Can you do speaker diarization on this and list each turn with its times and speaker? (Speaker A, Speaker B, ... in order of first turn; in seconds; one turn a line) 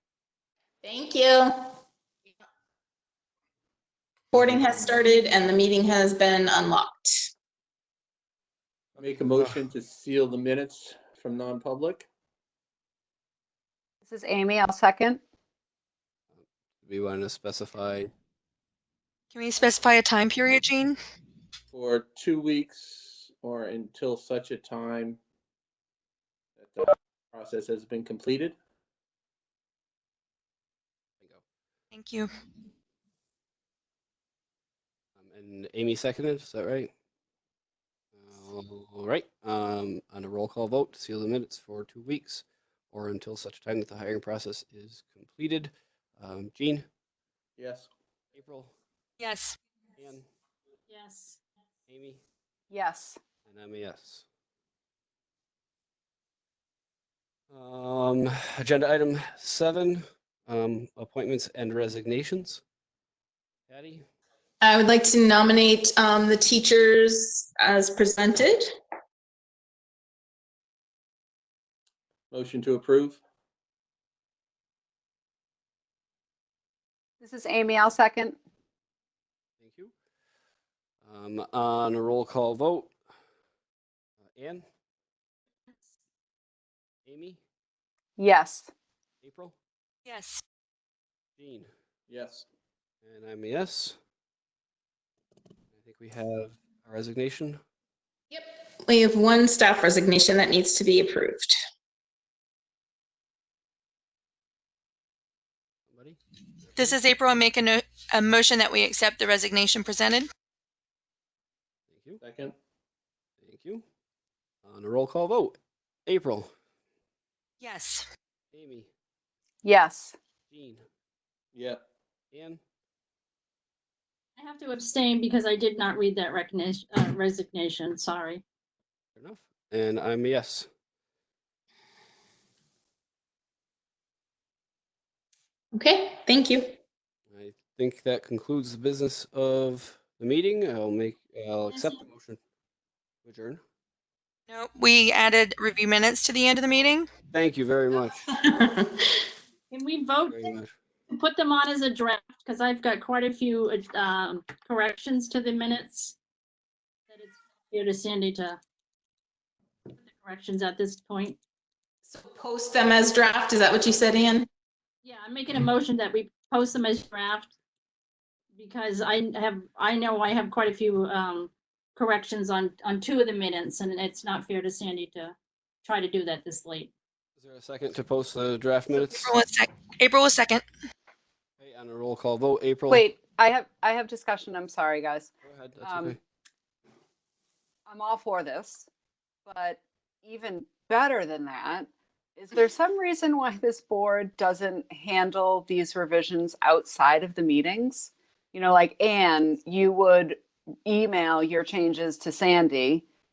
Speaker A: 0.8-1.5
Speaker A: 4.3-7.3
Speaker B: 4.5-4.9
Speaker B: 9.0-9.6
Speaker C: 9.0-12.1
Speaker D: 14.1-15.2
Speaker B: 16.3-18.1
Speaker E: 19.3-21.0
Speaker C: 21.7-25.2
Speaker C: 26.6-28.6
Speaker E: 31.9-32.3
Speaker B: 35.2-36.9
Speaker B: 38.2-46.9
Speaker C: 47.6-47.9
Speaker B: 48.4-48.7
Speaker E: 49.2-49.6
Speaker B: 50.0-50.2
Speaker F: 50.9-51.4
Speaker B: 51.9-52.2
Speaker D: 52.7-53.2
Speaker B: 53.5-54.2
Speaker B: 57.5-62.6
Speaker B: 63.7-64.0
Speaker A: 64.6-68.7
Speaker C: 72.3-73.2
Speaker D: 77.2-78.4
Speaker B: 79.6-79.9
Speaker B: 81.0-82.9
Speaker B: 84.3-84.7
Speaker B: 87.1-87.4
Speaker D: 88.2-88.7
Speaker B: 89.2-89.5
Speaker E: 90.1-90.4
Speaker B: 91.4-91.7
Speaker C: 92.1-92.5
Speaker B: 93.0-94.0
Speaker B: 95.7-97.6
Speaker A: 98.3-101.6
Speaker B: 105.9-106.2
Speaker B: 106.7-107.0
Speaker E: 106.8-110.3
Speaker B: 111.9-112.2
Speaker C: 112.2-112.5
Speaker B: 113.4-113.8
Speaker B: 114.7-116.5
Speaker E: 117.6-118.1
Speaker B: 118.5-118.9
Speaker D: 119.6-120.2
Speaker B: 120.5-120.8
Speaker C: 121.5-121.8
Speaker B: 122.3-122.6
Speaker F: 124.4-128.4
Speaker B: 129.2-130.7
Speaker A: 135.7-136.7
Speaker B: 137.3-142.4
Speaker F: 141.7-142.0
Speaker B: 143.2-143.6
Speaker E: 144.5-147.1
Speaker B: 147.3-148.2
Speaker A: 148.3-149.1
Speaker F: 149.7-150.5
Speaker B: 150.3-150.7
Speaker F: 151.1-156.2
Speaker F: 157.1-158.6
Speaker F: 160.0-161.4
Speaker A: 162.1-164.5
Speaker F: 165.0-167.5
Speaker F: 168.5-176.9
Speaker B: 177.4-179.3
Speaker E: 178.9-180.7
Speaker B: 181.6-183.1
Speaker D: 182.9-185.3
Speaker B: 185.4-186.2
Speaker D: 185.8-186.2
Speaker D: 187.9-188.9
Speaker D: 189.5-203.0